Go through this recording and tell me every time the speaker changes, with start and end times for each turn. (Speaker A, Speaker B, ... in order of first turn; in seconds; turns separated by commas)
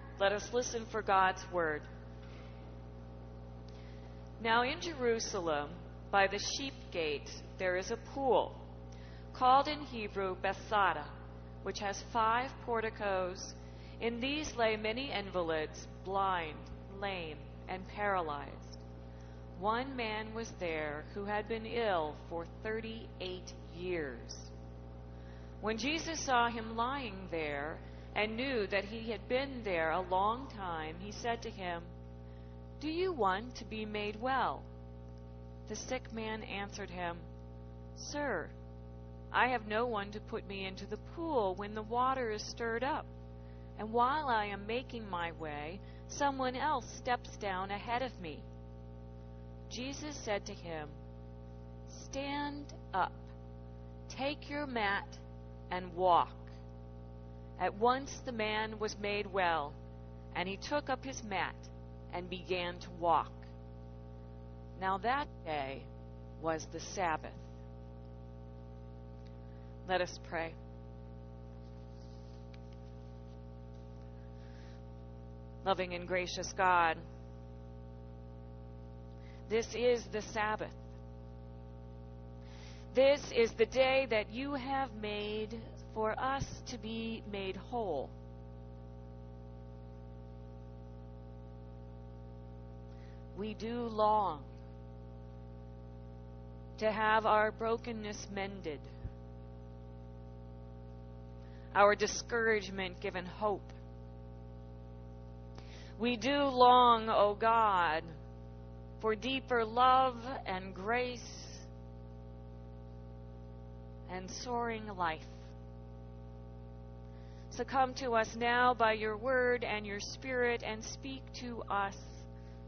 Speaker A: 0.2-1.9, Speaker A: 4.4-8.6, Speaker A: 9.3-11.1, Speaker A: 11.6-18.8, Speaker A: 19.6-24.5, Speaker A: 25.6-31.9, Speaker A: 32.8-34.7, Speaker A: 35.7-37.3, Speaker A: 38.0-38.5, Speaker A: 39.3-43.1, Speaker A: 43.8-48.5, Speaker A: 49.7-51.0, Speaker A: 51.9-53.3, Speaker A: 54.1-56.5, Speaker A: 57.6-59.8, Speaker A: 60.3-63.5, Speaker A: 64.8-65.9, Speaker A: 66.4-67.4, Speaker A: 69.8-70.6, Speaker A: 75.6-77.0, Speaker A: 79.5-80.8, Speaker A: 82.9-88.1, Speaker A: 93.3-94.5, Speaker A: 96.8-98.9, Speaker A: 101.7-103.7, Speaker A: 106.0-108.1, Speaker A: 109.0-111.7, Speaker A: 114.1-115.4, Speaker A: 117.5-122.3